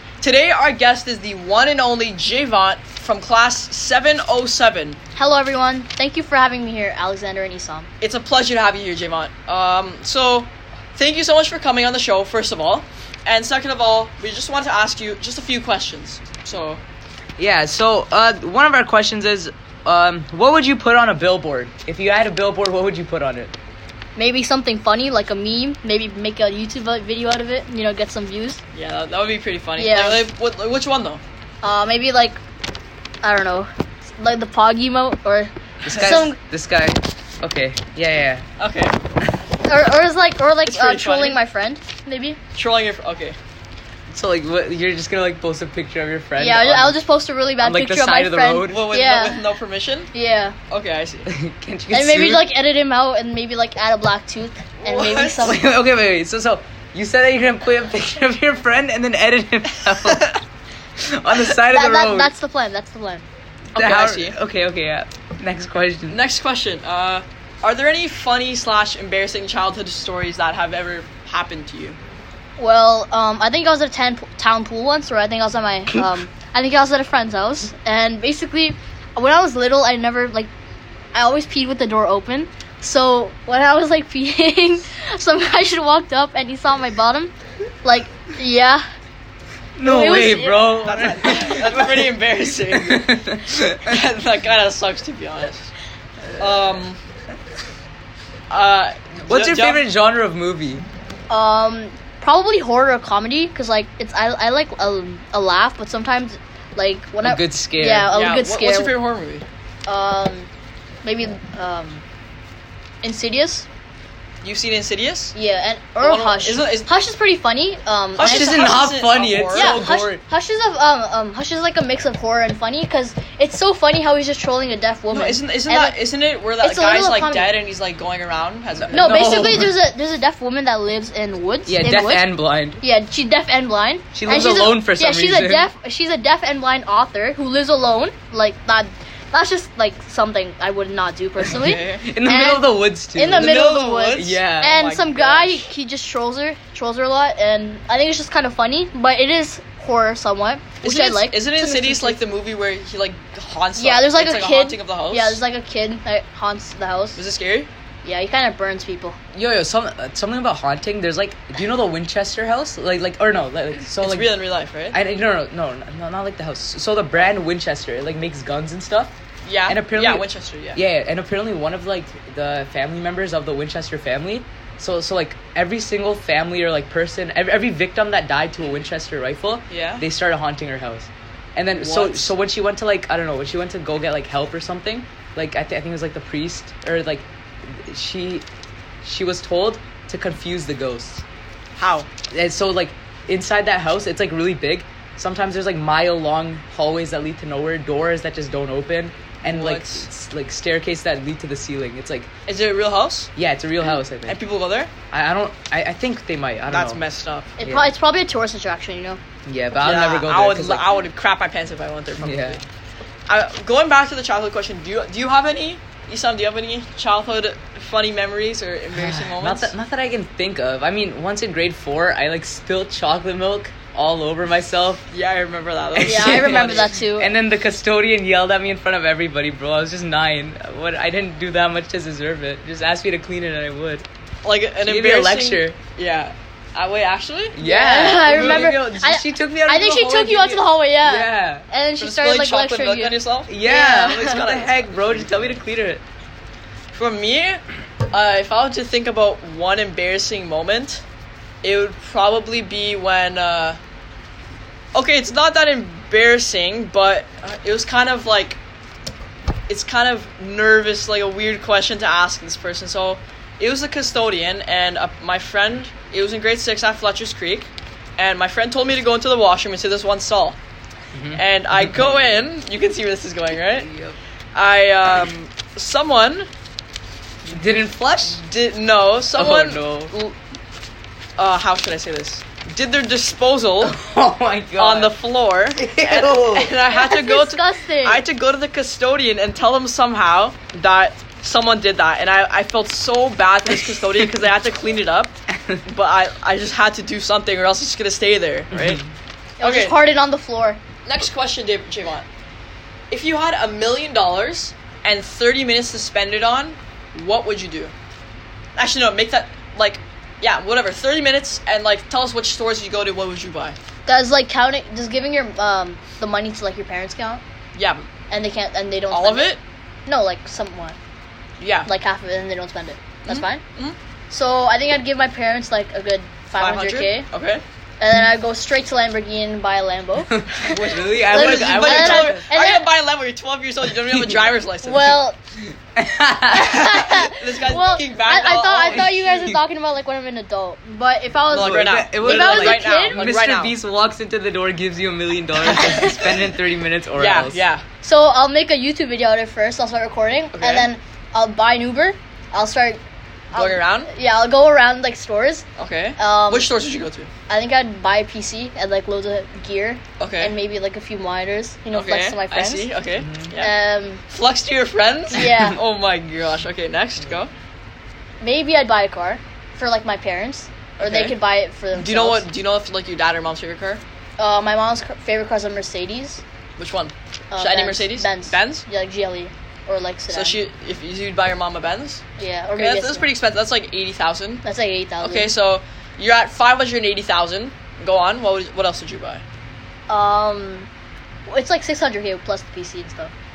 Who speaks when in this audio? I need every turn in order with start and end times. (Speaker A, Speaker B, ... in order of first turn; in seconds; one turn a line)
Speaker A: 0.2-5.0
Speaker B: 5.2-7.9
Speaker A: 8.0-16.8
Speaker C: 17.4-23.5
Speaker B: 24.2-28.6
Speaker A: 28.7-31.2
Speaker B: 29.8-30.3
Speaker B: 31.6-32.4
Speaker B: 33.2-36.4
Speaker A: 35.9-36.1
Speaker C: 35.9-38.5
Speaker A: 38.6-39.0
Speaker B: 39.6-42.4
Speaker A: 40.7-41.4
Speaker A: 42.5-43.4
Speaker C: 44.1-47.0
Speaker B: 46.4-49.5
Speaker C: 47.6-48.9
Speaker A: 48.7-50.1
Speaker B: 50.1-50.6
Speaker A: 50.7-51.3
Speaker C: 51.3-52.5
Speaker B: 51.9-55.6
Speaker A: 54.8-55.5
Speaker C: 55.4-60.4
Speaker C: 61.0-62.3
Speaker B: 61.7-63.3
Speaker C: 63.7-66.2
Speaker A: 63.8-64.3
Speaker A: 66.1-72.0
Speaker B: 72.6-80.5
Speaker B: 81.1-87.3
Speaker B: 87.8-88.8
Speaker C: 89.8-92.1
Speaker B: 89.8-90.8
Speaker A: 90.6-93.2
Speaker C: 92.9-94.0
Speaker A: 93.8-95.7
Speaker A: 96.4-97.0
Speaker A: 98.5-99.8
Speaker C: 99.3-100.8
Speaker B: 101.3-108.9
Speaker C: 107.2-108.1
Speaker A: 108.1-109.5
Speaker B: 109.9-110.5
Speaker B: 111.0-112.0
Speaker B: 113.0-113.7
Speaker A: 114.4-115.3
Speaker B: 115.3-118.6
Speaker A: 116.0-116.9
Speaker A: 118.2-119.8
Speaker C: 118.2-120.2
Speaker B: 119.5-126.0
Speaker A: 125.1-129.4
Speaker B: 126.6-127.6
Speaker C: 128.9-129.7
Speaker B: 128.9-152.2
Speaker C: 131.7-132.8
Speaker C: 134.1-135.7
Speaker A: 141.4-142.1
Speaker C: 141.5-144.8
Speaker A: 143.3-145.7
Speaker A: 150.8-155.4
Speaker B: 153.8-157.2
Speaker A: 157.2-157.7
Speaker B: 158.0-159.2
Speaker C: 159.3-164.4
Speaker A: 164.0-165.0
Speaker C: 164.9-169.1
Speaker A: 169.4-170.8
Speaker C: 169.7-188.4
Speaker A: 179.7-180.0
Speaker A: 181.7-182.3
Speaker C: 189.0-191.2
Speaker A: 191.8-192.1
Speaker C: 192.3-202.3
Speaker A: 199.4-200.1
Speaker A: 202.5-203.3
Speaker C: 203.4-204.4
Speaker A: 204.2-204.9
Speaker C: 205.1-207.0
Speaker A: 206.7-207.5
Speaker B: 207.6-209.2
Speaker C: 207.6-207.9
Speaker C: 209.5-210.9
Speaker A: 209.8-212.6
Speaker C: 212.2-212.6
Speaker A: 213.3-219.7
Speaker C: 218.9-225.1
Speaker A: 225.1-226.9
Speaker C: 225.9-234.1
Speaker B: 226.0-227.3
Speaker A: 234.4-237.6
Speaker C: 234.8-235.8
Speaker C: 237.5-241.7
Speaker B: 237.6-244.5
Speaker A: 238.2-238.8
Speaker A: 242.0-243.5
Speaker C: 243.5-246.0
Speaker A: 244.2-245.3
Speaker A: 246.9-251.0
Speaker A: 251.6-253.8
Speaker A: 254.9-258.6
Speaker A: 259.7-270.6
Speaker C: 271.1-272.4
Speaker A: 271.4-273.9
Speaker C: 273.8-274.2
Speaker A: 274.5-276.5
Speaker C: 277.5-278.4
Speaker A: 278.3-280.4
Speaker C: 279.4-280.1
Speaker A: 281.4-284.0
Speaker C: 283.8-285.2
Speaker A: 284.8-299.0
Speaker C: 285.8-286.8
Speaker B: 286.9-288.2
Speaker C: 298.7-299.1
Speaker B: 299.6-300.8
Speaker A: 299.6-300.0
Speaker A: 301.1-302.3
Speaker A: 303.1-307.9
Speaker A: 308.8-313.8
Speaker B: 314.1-317.4
Speaker A: 317.8-318.1
Speaker B: 318.3-321.0
Speaker A: 319.1-319.6
Speaker A: 321.6-321.9
Speaker B: 321.9-323.6
Speaker A: 323.3-324.0
Speaker B: 324.3-327.3
Speaker A: 326.6-327.6
Speaker B: 328.0-332.9
Speaker C: 330.3-332.5
Speaker A: 331.3-335.2
Speaker B: 334.8-335.4
Speaker C: 335.9-337.1
Speaker B: 336.5-343.3
Speaker A: 337.2-339.5
Speaker C: 339.0-339.6
Speaker A: 341.5-343.7
Speaker C: 341.5-347.6
Speaker B: 345.8-346.3
Speaker A: 347.2-347.9
Speaker B: 348.0-353.0
Speaker A: 350.5-350.9
Speaker B: 353.5-355.6
Speaker A: 353.5-354.1
Speaker A: 355.8-357.3
Speaker B: 356.2-356.8
Speaker B: 357.5-362.9
Speaker A: 360.2-360.6
Speaker A: 361.9-363.8
Speaker C: 363.2-363.5
Speaker B: 363.6-364.2
Speaker A: 364.3-367.5
Speaker B: 365.3-365.8
Speaker B: 368.4-372.5
Speaker A: 371.0-371.4
Speaker A: 371.9-374.0
Speaker B: 374.4-376.4
Speaker A: 376.8-378.9
Speaker B: 377.5-380.6
Speaker A: 380.3-382.2
Speaker B: 382.4-383.2
Speaker A: 382.8-384.6
Speaker B: 384.6-385.5
Speaker A: 385.2-389.4
Speaker B: 390.1-390.9
Speaker B: 391.5-393.3